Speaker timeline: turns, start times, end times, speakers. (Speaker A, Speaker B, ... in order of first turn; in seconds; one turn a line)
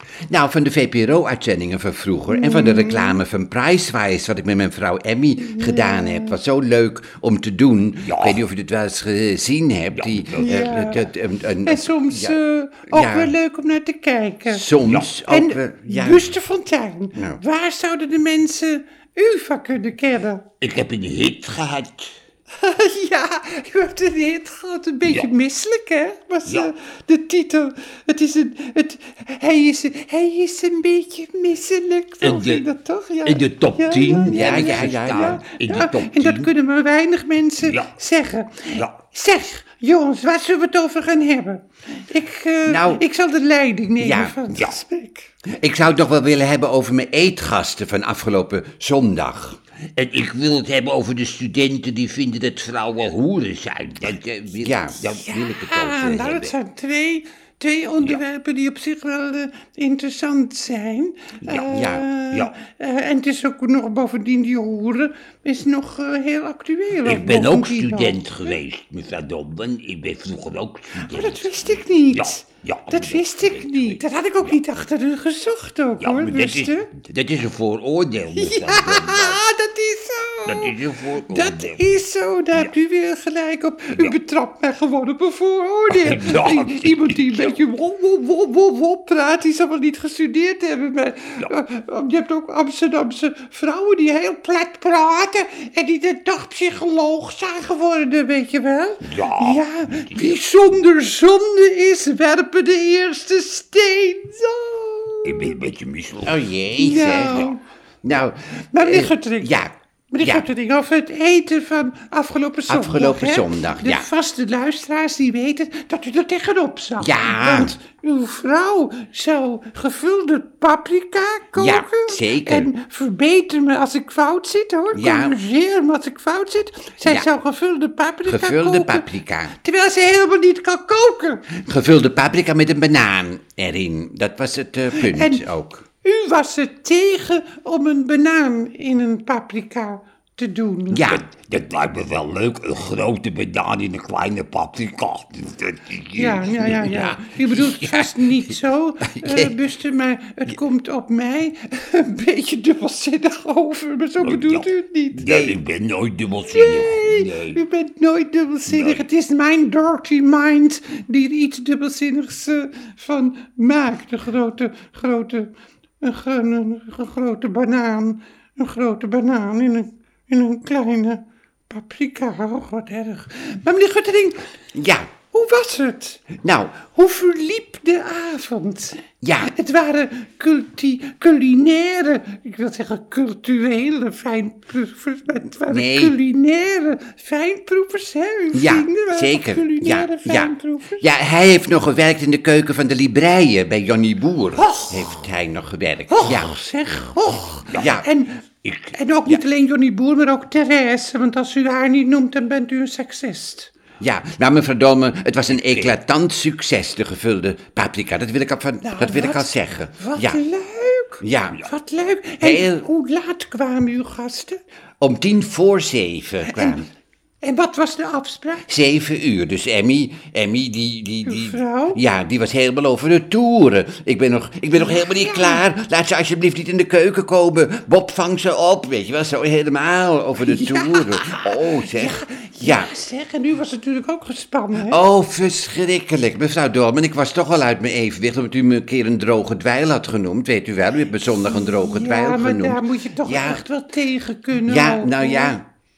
Speaker A: 0.3-13.3
Speaker B: 2.3-3.2
Speaker B: 5.5-6.4
Speaker C: 8.1-8.4
Speaker C: 9.9-10.5
Speaker B: 10.4-11.1
Speaker B: 11.6-14.7
Speaker A: 14.5-16.3
Speaker B: 15.3-20.4
Speaker A: 17.1-17.4
Speaker C: 20.6-22.1
Speaker B: 22.6-45.3
Speaker C: 32.2-32.6
Speaker C: 33.2-36.5
Speaker A: 34.2-35.4
Speaker C: 37.6-37.9
Speaker A: 42.7-43.0
Speaker A: 44.0-44.4
Speaker C: 44.5-44.8
Speaker A: 45.5-49.6
Speaker C: 50.0-56.5
Speaker A: 54.6-55.2
Speaker B: 55.2-68.5
Speaker C: 61.4-62.5
Speaker A: 61.7-62.0
Speaker C: 67.0-71.5
Speaker B: 71.0-76.9
Speaker C: 72.1-74.5
Speaker C: 76.0-79.4
Speaker B: 78.3-105.6
Speaker C: 80.5-81.8
Speaker C: 85.9-87.6
Speaker C: 99.0-100.4
Speaker C: 105.2-106.4
Speaker A: 106.2-107.5
Speaker B: 106.7-107.6
Speaker A: 108.0-110.5
Speaker B: 108.7-109.6
Speaker B: 110.1-131.6
Speaker A: 112.7-114.1
Speaker A: 117.0-117.8
Speaker A: 121.6-122.7
Speaker A: 124.9-125.3
Speaker A: 128.2-129.5
Speaker A: 131.6-135.8
Speaker B: 134.9-135.4
Speaker B: 136.0-141.1
Speaker A: 140.9-141.2
Speaker C: 140.9-147.1
Speaker B: 146.2-155.6
Speaker A: 146.7-148.1
Speaker A: 149.0-149.6
Speaker C: 154.2-157.6
Speaker B: 156.4-174.5
Speaker C: 158.7-159.1
Speaker A: 174.8-175.1
Speaker B: 175.3-191.0
Speaker A: 176.4-176.8
Speaker A: 179.2-179.5
Speaker A: 185.7-186.2
Speaker A: 188.5-196.6
Speaker B: 194.6-195.1
Speaker B: 196.1-198.4
Speaker C: 197.7-197.9
Speaker A: 197.7-198.1
Speaker C: 198.6-199.0
Speaker B: 198.9-203.7
Speaker A: 204.0-210.4
Speaker C: 205.6-205.9
Speaker B: 208.8-214.6
Speaker A: 211.2-211.6
Speaker A: 212.4-212.8
Speaker A: 215.0-216.8
Speaker B: 216.4-216.8
Speaker B: 217.4-218.7
Speaker A: 218.7-232.9
Speaker B: 221.2-222.0
Speaker B: 224.8-225.7
Speaker B: 230.4-235.0
Speaker A: 234.8-243.6
Speaker B: 241.4-245.6
Speaker A: 244.7-245.6